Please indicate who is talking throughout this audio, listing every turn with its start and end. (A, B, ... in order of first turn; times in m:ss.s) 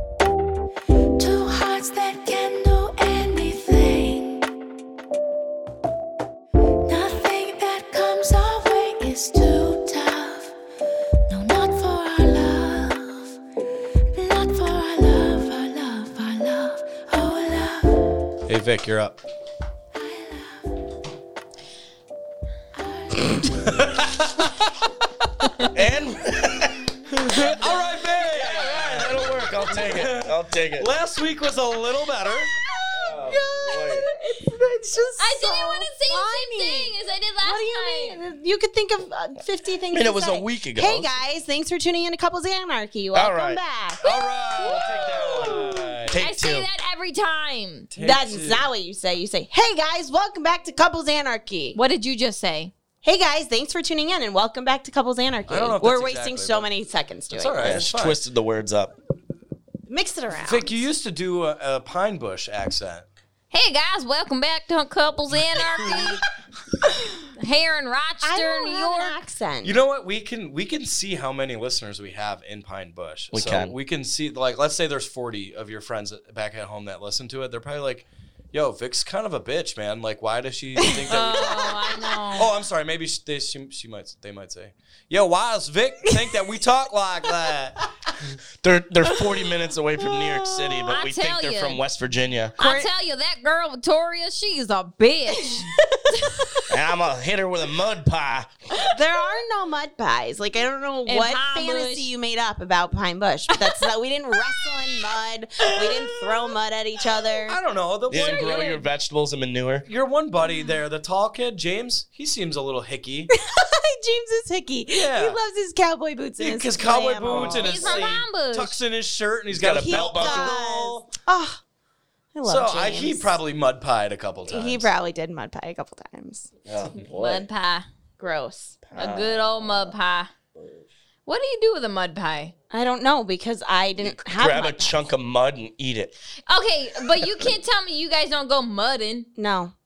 0:01.2-0:04.4 A
0:06.9-0:10.5 A
0:11.3-0:13.3 A
0:14.1-0:18.2 A
0:18.5-0:19.2 B
0:19.9-0:20.6 A
0:22.8-0:23.8 A
0:23.4-0:24.7 B
0:25.7-0:26.9 C
0:27.1-0:32.5 B
0:28.4-0:30.9 C
0:32.6-0:45.9 D
0:32.9-0:34.1 C
0:35.2-0:38.2 E
0:39.9-0:41.2 C
0:43.1-0:43.6 C
0:44.0-0:46.2 B
0:44.1-0:44.8 E
0:44.6-0:46.7 C
0:46.2-0:47.9 E
0:47.9-0:48.7 B
0:48.0-0:51.8 D
0:51.7-0:52.7 E
0:53.0-0:57.8 D
0:55.5-0:56.7 B
0:57.3-0:58.2 B
0:57.6-0:58.9 C
0:59.9-1:00.8 D
1:00.4-1:03.1 B
1:03.5-1:06.2 E
1:07.4-1:09.2 E
1:08.2-1:09.8 D
1:09.6-1:27.9 B
1:13.3-1:13.8 C
1:21.0-1:21.6 D
1:21.1-1:22.5 E
1:28.6-1:32.6 C
1:30.1-1:30.8 D
1:30.9-1:31.8 E
1:32.6-1:32.9 D
1:32.6-1:35.7 E
1:36.2-1:36.6 E
1:36.7-1:38.5 C
1:38.9-1:47.6 D
1:41.1-1:42.1 E
1:47.5-1:48.8 B
1:48.1-1:49.9 C
1:48.2-1:48.8 E
1:49.9-1:53.3 B
1:53.4-1:58.1 D
1:54.9-1:55.4 B
1:56.4-2:01.0 B
1:57.4-1:58.8 E
1:59.5-2:01.0 C
1:59.8-2:01.6 D
2:02.3-2:03.3 D
2:02.4-2:04.9 B
2:04.5-2:06.5 D
2:06.7-2:07.5 C
2:07.0-2:07.9 E
2:08.2-2:08.8 D
2:08.8-2:09.9 C
2:09.0-2:10.3 E
2:11.3-2:12.5 E
2:12.7-2:15.0 D
2:14.0-2:16.1 C
2:16.5-2:19.3 E
2:19.4-2:19.7 D